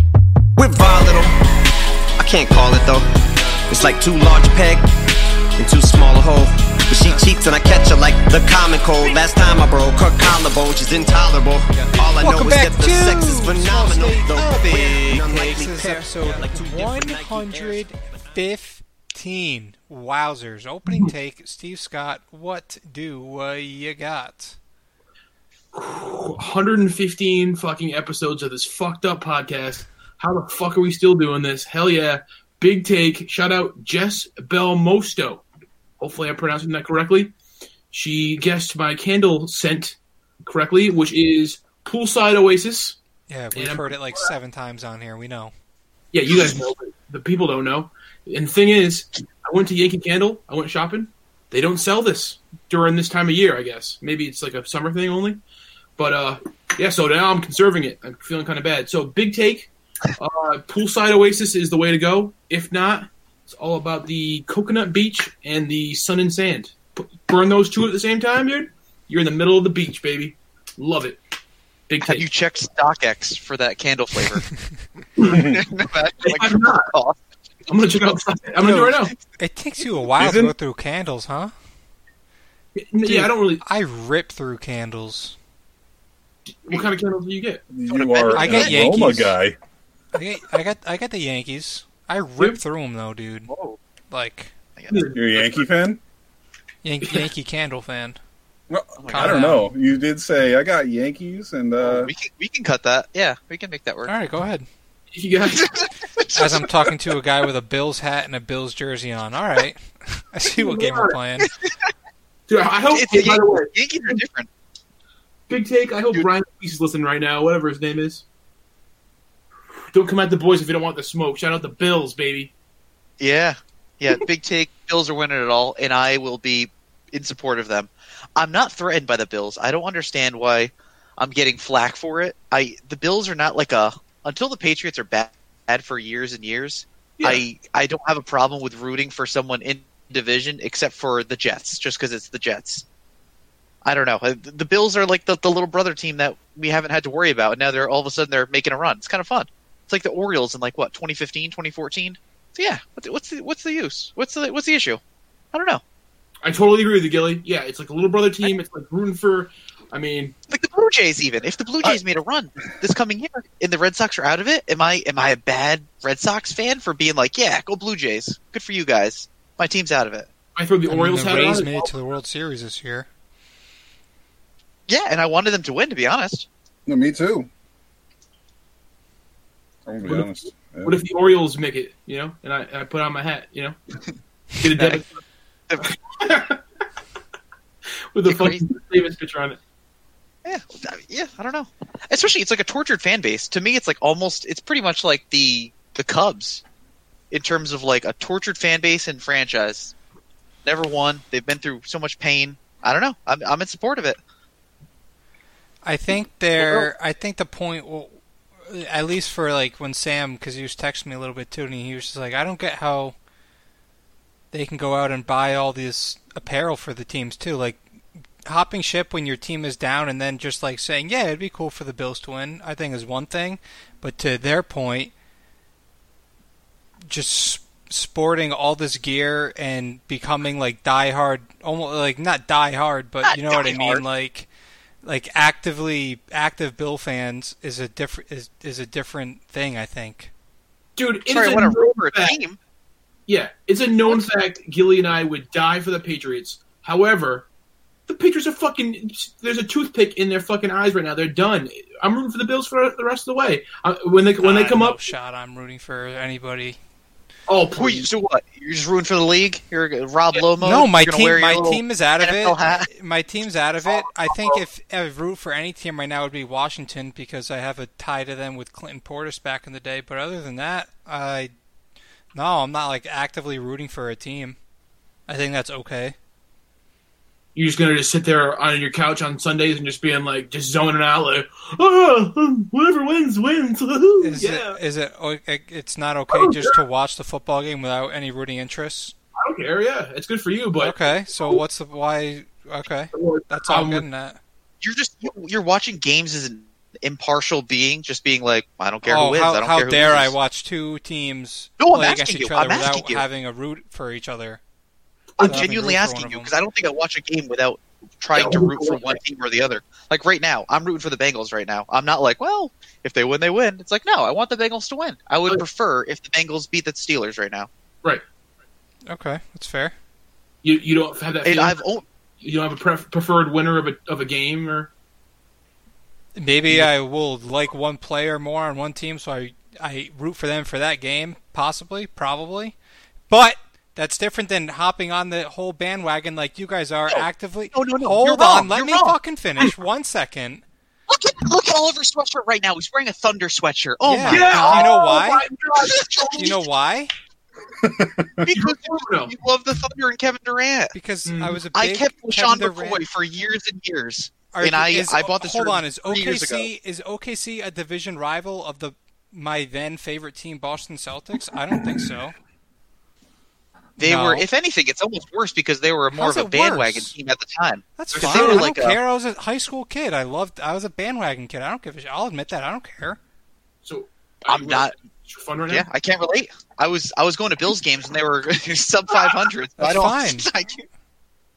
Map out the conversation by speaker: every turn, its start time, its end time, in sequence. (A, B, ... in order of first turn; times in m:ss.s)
0:00.6-0:01.3 A
0:02.2-0:03.1 A
0:03.7-0:04.8 A
0:05.6-0:18.4 A
0:12.0-0:24.6 B
0:25.7-0:35.4 C
0:36.0-0:37.3 C
0:37.9-0:43.0 C
0:43.3-0:45.5 B
0:43.5-0:44.3 C
0:46.1-0:55.4 C
0:56.0-1:11.2 C
1:11.9-1:12.3 C
1:12.0-1:14.4 D
1:15.2-1:15.4 C
1:15.2-1:17.2 D
1:15.2-1:15.6 E
1:16.2-1:16.9 C
1:17.7-1:19.1 C
1:18.6-1:21.5 B
1:20.2-1:20.5 E
1:22.8-1:23.6 C
1:23.0-1:25.4 B
1:26.7-1:27.7 C
1:27.7-1:29.6 E
1:27.9-1:29.0 D
1:28.3-1:29.4 B
1:30.1-1:33.5 B
1:33.5-1:33.8 D
1:34.1-1:34.5 B
1:34.8-1:35.1 D
1:34.9-1:35.5 C
1:35.1-1:36.0 E
1:36.8-1:38.2 B
1:38.7-1:42.1 E
1:39.0-1:39.4 D
1:39.1-1:39.7 B
1:41.8-1:44.1 D
1:44.0-1:44.7 B
1:45.1-1:45.8 C
1:45.5-1:46.9 D
1:46.3-1:51.5 B
1:50.5-1:51.2 C
1:51.4-1:51.7 D
1:52.5-1:54.2 C
1:52.9-1:54.5 D
1:55.5-1:58.2 C
1:59.9-2:02.5 C
2:03.2-2:22.8 D
2:17.2-2:17.4 C
2:23.8-2:35.0 D
2:35.5-2:35.8 D
2:36.4-2:40.4 C
2:40.5-2:50.3 D
2:50.6-2:52.0 C
2:50.9-2:53.1 B
2:54.9-2:56.5 D
2:56.9-2:57.5 E
2:59.9-3:01.0 E
3:00.8-3:03.8 C
3:04.6-3:05.1 C
3:04.8-3:05.0 D
3:05.8-3:06.6 C
3:08.1-3:09.6 C
3:08.3-3:08.6 D
3:10.4-3:16.6 D
3:17.3-3:20.0 D
3:20.6-3:24.2 D
3:25.8-3:33.2 B
3:26.6-3:26.9 D
3:34.5-3:37.8 B
3:38.4-3:45.1 B
3:47.1-3:54.5 B
3:53.2-3:54.0 D
3:55.0-4:00.3 B
4:01.0-4:02.4 C
4:01.3-4:02.6 D
4:03.3-4:07.5 C
4:08.1-4:15.0 C
4:14.4-4:16.8 B
4:17.5-4:18.1 C
4:17.8-4:22.9 D
4:20.6-4:31.5 B
4:32.3-4:34.6 B
4:35.3-4:36.2 B
4:37.6-4:44.8 C
4:44.2-4:49.2 B
4:46.3-4:46.8 C
4:49.4-4:51.6 C
4:50.8-4:54.4 B
4:53.1-4:54.0 C
4:54.8-5:00.4 D
4:59.0-5:04.6 B
5:01.8-5:03.2 D
5:05.4-5:05.7 C
5:05.4-5:17.7 D
5:05.4-5:06.5 B
5:08.3-5:09.2 C
5:19.1-5:20.0 B
5:20.6-5:21.8 C
5:21.4-5:22.0 D
5:22.4-5:24.9 C
5:26.4-5:32.8 B
5:33.3-5:40.6 B
5:37.1-5:39.2 D
5:41.1-5:45.0 D
5:44.0-5:45.5 B
5:44.3-5:46.6 C
5:45.8-5:46.6 D
5:46.4-5:47.1 B
5:47.8-5:48.5 E
5:48.5-5:50.9 D
5:48.5-5:49.3 C
5:50.9-5:53.0 B
5:51.3-5:51.6 C
5:51.7-5:56.7 D
5:54.5-6:02.4 B
6:04.0-6:09.0 D
6:04.0-6:04.5 B
6:06.2-6:07.1 B
6:08.0-6:13.2 B
6:08.2-6:08.6 C
6:13.8-6:15.9 C
6:14.5-6:14.9 D
6:15.7-6:20.9 D
6:19.8-6:20.5 B